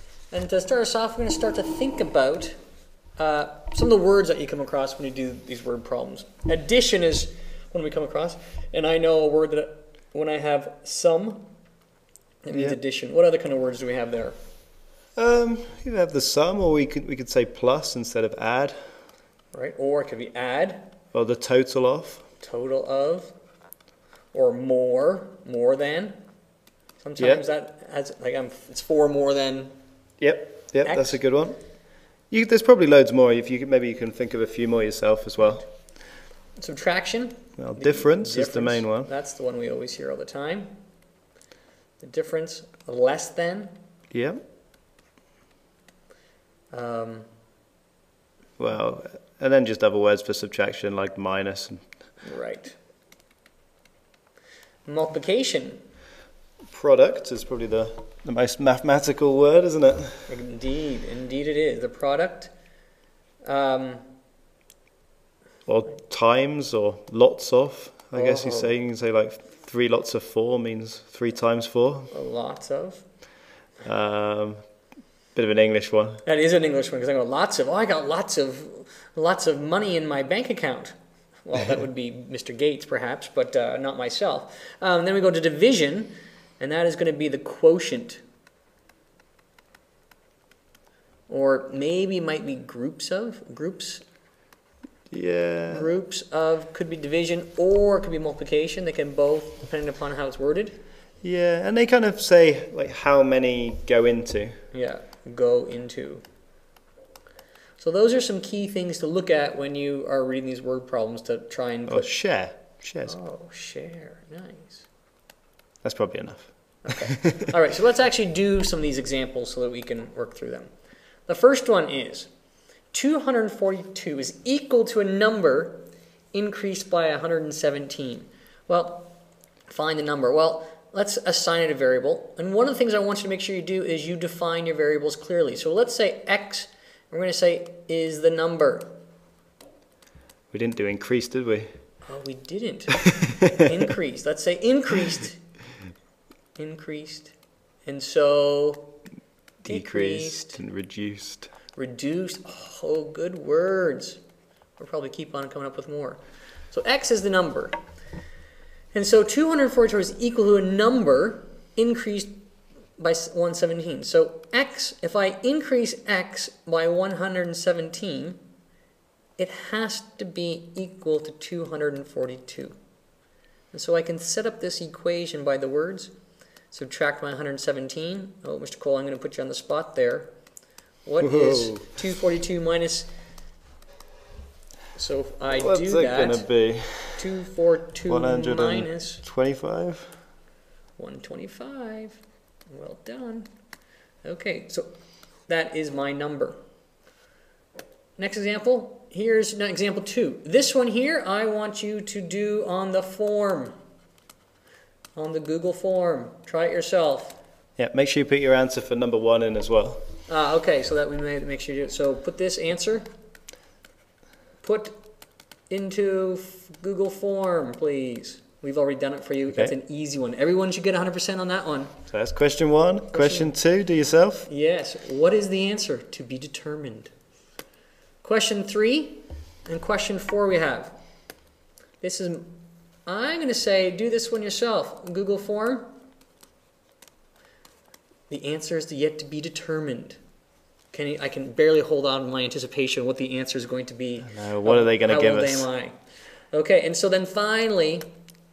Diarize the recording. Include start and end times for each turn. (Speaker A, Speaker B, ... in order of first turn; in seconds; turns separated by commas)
Speaker A: 0.3-2.6, Speaker A: 3.2-11.5, Speaker A: 12.4-14.4, Speaker B: 15.2-18.9, Speaker A: 19.5-20.9, Speaker B: 21.1-22.2, Speaker A: 22.4-23.3, Speaker A: 24.3-26.2, Speaker A: 27.0-29.7, Speaker B: 27.2-27.4, Speaker B: 30.2-31.6, Speaker A: 30.8-31.2, Speaker B: 32.3-35.7, Speaker A: 36.6-40.7, Speaker B: 37.6-39.1, Speaker A: 42.0-43.7, Speaker B: 44.1-44.4, Speaker A: 46.7-47.3, Speaker B: 48.6-51.9, Speaker A: 52.2-52.8, Speaker A: 54.9-55.8, Speaker B: 56.7-60.3, Speaker A: 60.3-62.5, Speaker A: 63.5-64.0, Speaker B: 65.7-72.1, Speaker A: 68.1-68.7, Speaker A: 72.1-73.0, Speaker B: 73.8-74.6, Speaker B: 75.3-76.2, Speaker A: 76.2-88.2, Speaker A: 91.3-94.0, Speaker B: 95.1-95.9, Speaker A: 95.7-100.8, Speaker B: 101.2-104.5, Speaker A: 104.7-106.2, Speaker A: 107.8-112.1, Speaker B: 111.9-113.2, Speaker A: 113.1-114.9, Speaker B: 115.8-117.4, Speaker A: 116.8-120.7, Speaker A: 121.3-122.3, Speaker A: 122.9-129.2, Speaker A: 129.7-138.9, Speaker B: 140.5-141.8, Speaker A: 142.1-145.4, Speaker A: 146.6-147.3, Speaker A: 147.8-149.0, Speaker B: 149.6-151.5, Speaker A: 149.7-150.6, Speaker A: 151.8-154.2, Speaker A: 154.8-156.2, Speaker A: 156.7-157.8, Speaker A: 158.9-162.3, Speaker A: 163.0-168.4, Speaker A: 169.4-172.8, Speaker A: 173.7-176.1, Speaker A: 176.7-180.3, Speaker A: 181.1-183.1, Speaker B: 181.2-181.8, Speaker A: 184.9-186.5, Speaker B: 185.5-187.3, Speaker A: 187.2-189.2, Speaker B: 188.1-190.2, Speaker A: 191.0-192.2, Speaker A: 192.7-193.5, Speaker A: 194.2-194.9, Speaker A: 195.5-196.6, Speaker A: 198.2-203.8, Speaker A: 205.2-207.4, Speaker B: 207.8-210.0, Speaker A: 210.3-213.1, Speaker A: 214.6-215.0, Speaker A: 215.7-221.9, Speaker B: 222.1-224.5, Speaker A: 223.1-223.5, Speaker A: 224.5-227.1, Speaker A: 228.2-231.0, Speaker A: 232.0-235.9, Speaker A: 238.3-240.2, Speaker A: 240.9-246.0, Speaker B: 244.3-245.7, Speaker A: 246.5-248.1